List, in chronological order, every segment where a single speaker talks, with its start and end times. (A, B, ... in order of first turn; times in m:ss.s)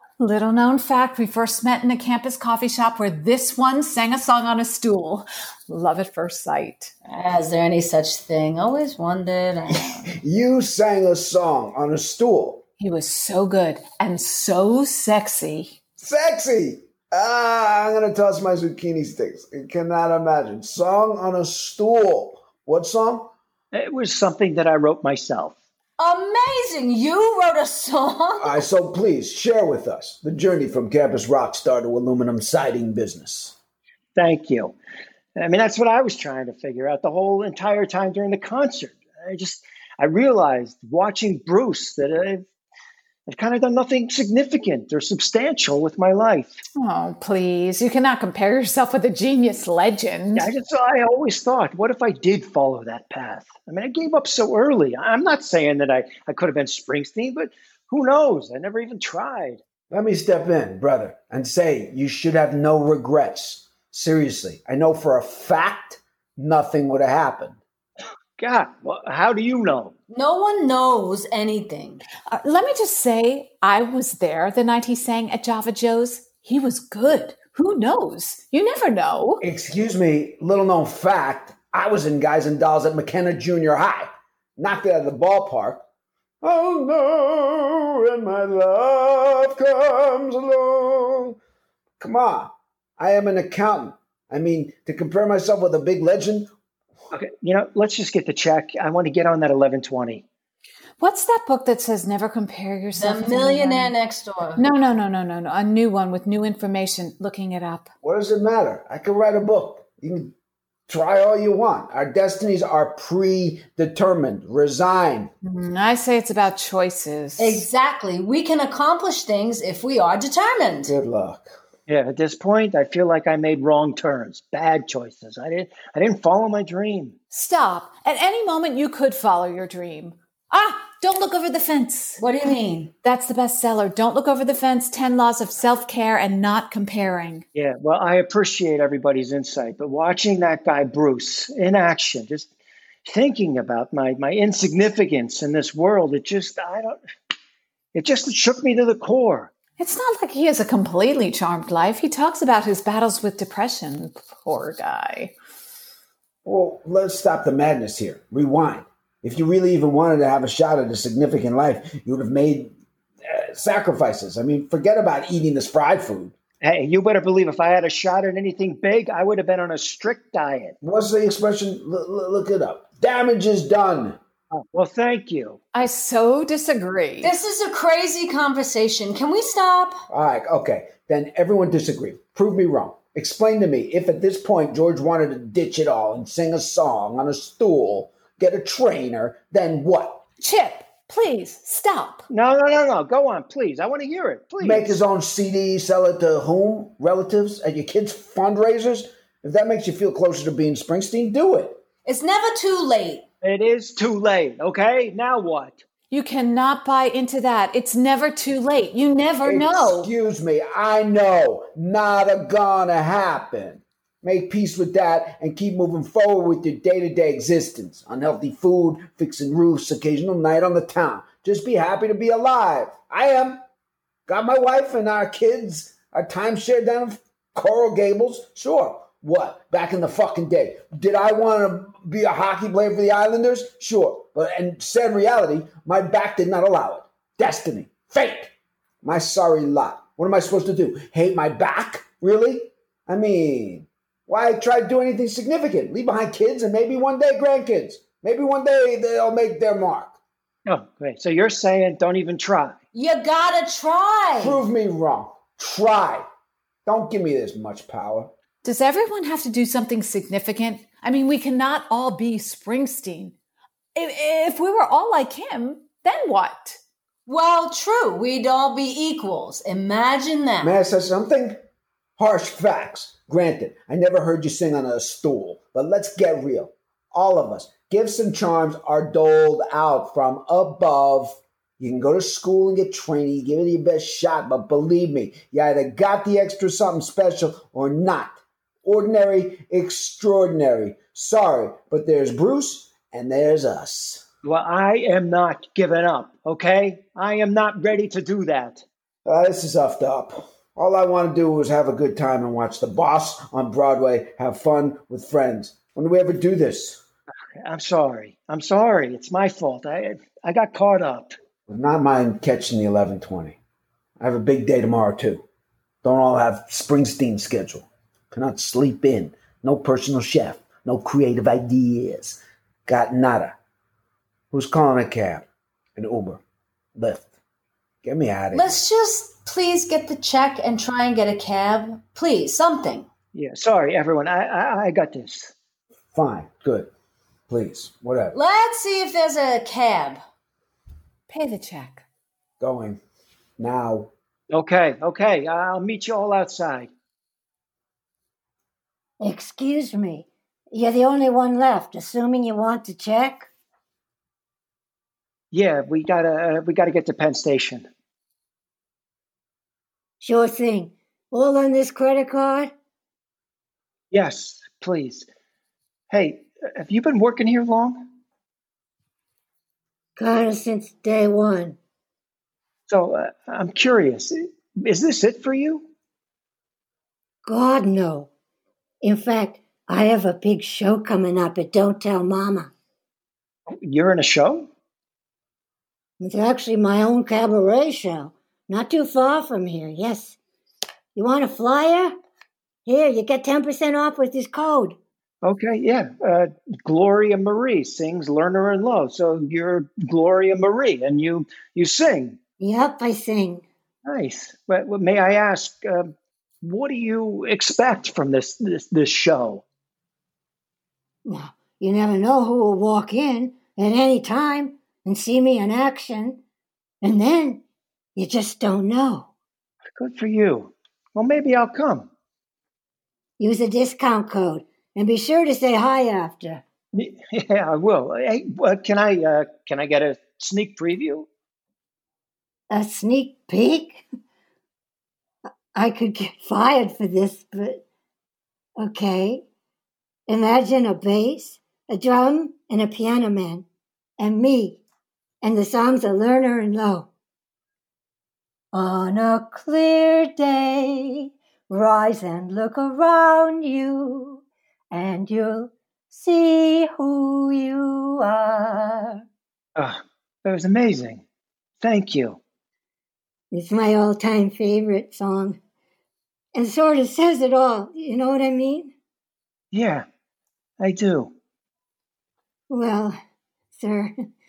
0:00.2-0:06.9 A
0:07.1-0:10.1 B
0:09.7-0:12.6 C
0:12.8-0:15.8 A
0:16.0-0:23.3 C
0:23.7-0:25.5 D
0:26.0-0:28.6 B
0:28.4-0:33.5 C
0:34.2-0:34.7 D
0:35.4-0:42.5 D
0:43.3-0:46.6 D
0:46.8-0:50.5 A
0:50.4-0:59.6 D
0:59.9-1:07.6 C
1:08.4-1:09.9 D
1:10.1-1:12.0 B
1:12.3-1:19.4 A
1:19.4-1:25.8 C
1:26.4-1:31.4 C
1:32.0-1:36.5 C
1:37.1-1:40.2 D
1:41.0-1:43.9 A
1:43.0-1:44.6 B
1:44.6-1:47.9 A
1:48.0-1:50.3 C
1:50.9-1:55.3 C
1:55.4-1:57.6 A
1:57.4-2:00.9 B
2:00.9-2:01.6 C
2:01.9-2:07.1 D
2:07.3-2:12.2 A
2:12.2-2:12.9 B
2:13.0-2:17.4 A
2:17.5-2:22.5 D
2:23.0-2:27.0 D
2:27.9-2:29.5 D
2:29.8-2:35.3 A
2:36.4-2:46.3 C
2:46.6-2:50.8 D
2:50.8-2:54.2 C
2:54.5-2:55.6 D
2:55.7-2:57.4 A
2:57.2-2:59.9 B
3:00.1-3:10.2 C
3:10.4-3:12.3 A
3:12.3-3:15.0 D
3:14.6-3:21.8 C
3:22.0-3:23.2 B
3:23.4-3:25.8 D
3:26.1-3:30.1 A
3:29.4-3:43.6 C
3:44.3-3:58.5 C
3:59.0-4:10.2 C
4:10.6-4:12.8 D
4:12.9-4:14.6 B
4:14.4-4:16.2 C
4:16.8-4:18.3 C
4:18.6-4:23.4 A
4:23.9-4:26.8 A
4:27.2-4:30.7 B
4:30.6-4:31.6 C
4:32.2-4:54.2 C
4:54.4-4:58.8 D
4:59.2-5:07.0 C
5:07.6-5:11.4 D
5:11.7-5:13.6 C
5:14.2-5:15.4 C
5:16.0-5:23.6 C
5:24.5-5:26.4 C
5:27.0-5:27.3 C
5:28.0-5:28.8 C
5:28.5-5:33.1 B
5:33.3-5:35.5 D
5:36.1-5:36.9 C
5:37.5-5:38.4 C
5:38.3-5:40.2 B
5:41.3-5:42.0 A
5:42.6-5:43.0 C
5:43.6-5:44.1 C
5:44.5-5:46.9 D
5:49.2-5:50.2 E
5:50.8-5:53.5 E
5:55.5-5:57.9 D
6:00.2-6:02.7 E
6:04.1-6:05.3 D
6:06.1-6:08.1 D
6:10.2-6:11.8 E
6:12.9-6:15.9 D
6:17.4-6:18.3 E
6:19.0-6:22.7 E
6:23.8-6:24.7 D
6:26.2-6:30.4 E
6:31.2-6:32.1 E
6:32.8-6:35.0 E
6:35.4-6:42.4 D
6:42.6-6:43.6 E
6:44.0-6:46.1 D
6:46.6-6:49.6 D
6:51.2-6:56.4 E
6:57.0-6:57.6 E
6:58.2-6:59.3 E
7:00.0-7:02.1 D
7:03.4-7:06.6 E
7:06.9-7:11.3 D
7:12.7-7:14.0 E
7:15.8-7:17.8 E
7:18.8-7:19.4 E
7:20.3-7:23.6 E
7:24.2-7:24.8 E
7:25.4-7:27.1 E
7:28.7-7:34.4 E
7:34.9-7:39.2 E
7:39.8-7:41.2 D
7:41.8-7:42.4 D
7:43.5-7:45.6 E
7:46.5-7:48.9 E
7:49.7-7:50.0 D
7:50.8-7:51.3 D
7:52.7-7:53.2 E
7:53.8-7:54.1 E